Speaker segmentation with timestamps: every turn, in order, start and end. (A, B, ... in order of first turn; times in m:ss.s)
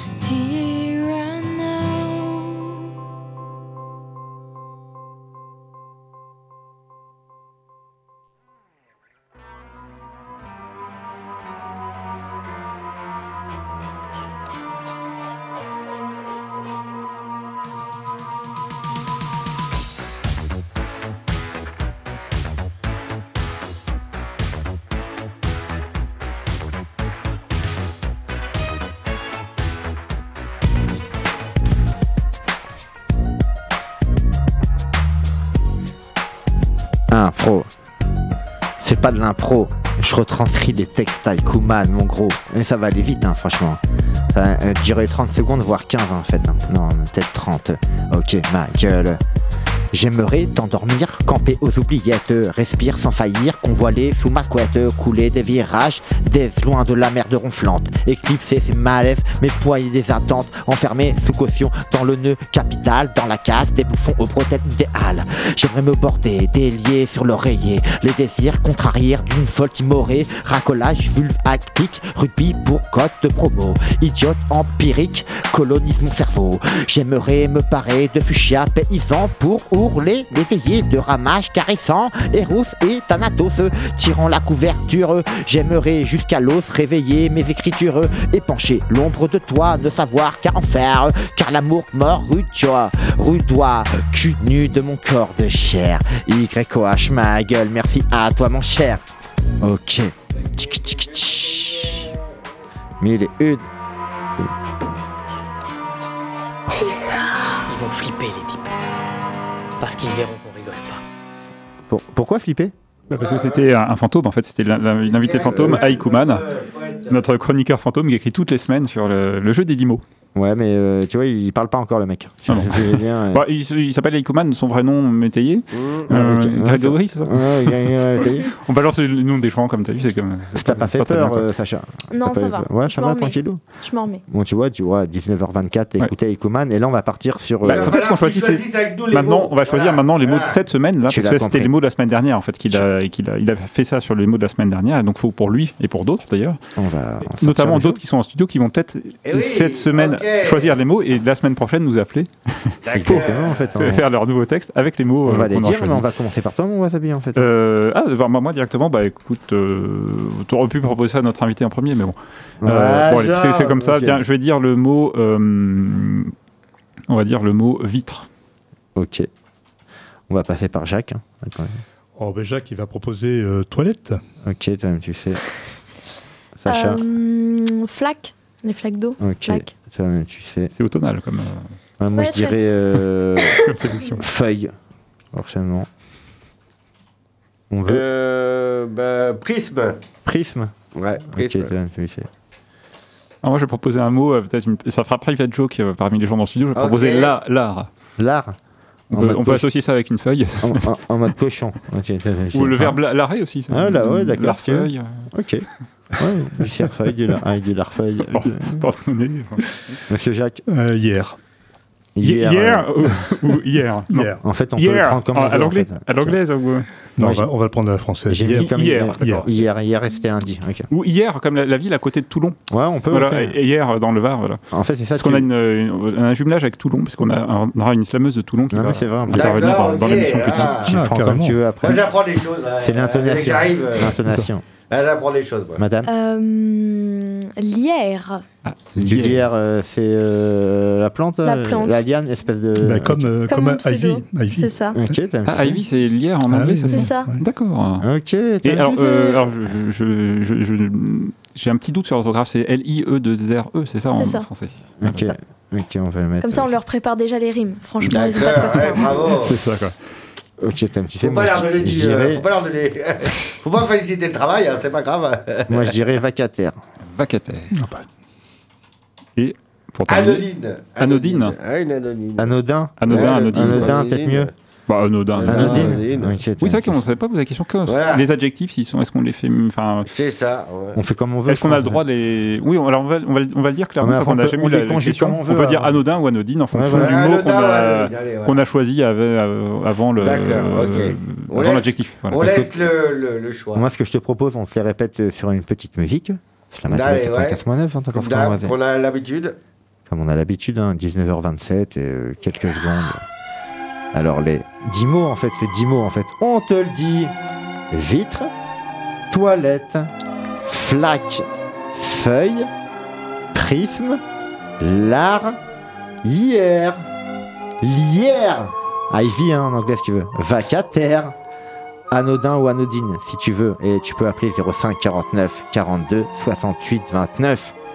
0:00.2-0:02.8 A
0:37.1-0:37.7 B
0:38.8-0:49.2 B
0:49.9-1:39.0 B
1:39.6-1:42.1 B
1:40.6-1:42.2 C
1:43.0-1:43.6 B
1:46.7-1:48.7 D
1:49.8-1:51.0 D
1:51.9-1:52.7 B
1:53.1-1:53.7 C
1:53.1-1:56.4 E
1:55.0-1:57.2 C
1:55.4-1:55.9 B
1:57.1-2:00.0 E
2:00.3-2:03.4 B
2:02.5-2:11.4 E
2:05.7-2:06.1 C
2:06.1-2:08.5 B
2:10.5-2:13.6 B
2:12.1-2:14.2 A
2:14.3-2:18.0 B
2:17.6-2:20.6 C
2:17.6-2:26.6 E
2:21.1-2:21.7 B
2:26.8-2:28.0 B
2:27.3-2:36.0 E
2:29.2-2:30.7 C
2:32.8-2:33.8 C
2:32.9-2:34.0 B
2:35.2-2:37.4 B
2:37.4-2:46.3 E
2:42.6-2:44.2 B
2:43.3-2:43.8 C
2:47.1-2:48.3 E
2:48.9-2:49.3 B
2:50.3-2:51.8 B
2:52.2-2:54.2 F
2:54.4-2:55.4 B
2:56.6-2:57.0 B
2:56.7-2:59.7 A
2:59.2-3:00.7 B
3:00.7-3:01.7 E
3:02.0-3:04.7 B
3:02.1-3:02.6 A
3:03.6-3:04.2 E
3:05.3-3:05.9 B
3:07.7-3:08.0 B
3:07.9-3:10.0 C
3:10.2-3:10.8 B
3:10.9-3:11.7 C
3:11.3-3:12.3 B
3:13.4-3:17.9 E
3:16.8-3:17.3 C
3:18.2-3:18.5 B
3:19.1-3:20.9 E
3:19.1-3:19.6 B
3:20.6-3:23.0 B
3:22.5-3:25.3 E
3:23.7-3:28.8 B
3:28.3-3:30.0 E
3:30.1-3:30.6 B
3:30.7-3:31.4 F
3:32.2-3:32.9 B
3:32.2-3:36.9 E
3:34.1-3:34.4 F
3:34.4-3:36.4 B
3:37.2-3:39.5 F
3:37.2-3:37.5 B
3:38.3-3:40.9 B
3:38.6-3:39.2 E
3:40.9-3:42.6 E
3:42.7-3:43.5 B
3:43.1-3:44.6 E
3:44.7-3:45.5 B
3:45.2-3:50.9 E
3:48.7-3:49.6 B
3:49.3-3:50.9 C
3:50.4-3:52.0 B
3:50.9-3:51.6 F
3:51.8-3:54.2 C
3:52.8-3:54.6 B
3:54.9-3:55.8 C
3:55.8-3:56.1 B
3:56.0-3:58.4 A
3:58.6-3:59.4 E
3:59.0-4:03.3 B
4:01.4-4:02.0 A
4:02.8-4:05.1 F
4:03.5-4:05.0 A
4:04.9-4:05.8 B
4:05.4-4:08.1 E
4:06.5-4:07.4 F
4:06.9-4:07.3 A
4:08.0-4:09.4 B
4:08.6-4:15.3 E
4:08.9-4:09.3 A
4:14.1-4:14.4 A
4:15.0-4:16.7 B
4:16.4-4:19.2 A
4:18.1-4:19.6 C
4:18.3-4:20.0 E
4:20.6-4:22.4 B
4:21.2-4:25.9 C
4:25.7-4:26.8 B
4:27.0-4:27.7 E
4:27.7-4:28.0 F
4:29.4-4:30.5 E
4:30.1-4:32.6 C
4:31.0-4:31.5 E
4:32.4-4:34.5 B
4:33.0-4:34.0 E
4:33.1-4:34.5 C
4:34.9-4:36.0 E
4:35.4-4:36.4 C
4:35.4-4:37.0 B
4:36.6-4:40.1 E
4:37.9-4:38.2 C
4:40.0-4:41.0 C
4:40.9-4:42.0 B
4:41.5-4:52.4 E
4:44.0-4:46.0 B
4:46.7-4:47.2 B
4:46.9-4:48.6 C
4:50.2-4:53.8 C
4:52.3-4:52.7 B
4:53.7-4:58.7 B
4:56.9-4:57.6 C
4:58.1-4:59.6 C
5:00.1-5:03.2 B
5:04.1-5:07.3 B
5:07.9-5:08.5 B
5:09.3-5:10.1 B
5:10.6-5:12.7 B
5:13.5-5:14.2 B
5:14.8-5:15.6 B
5:16.2-5:17.0 B
5:17.8-5:21.3 B
5:22.1-5:27.7 B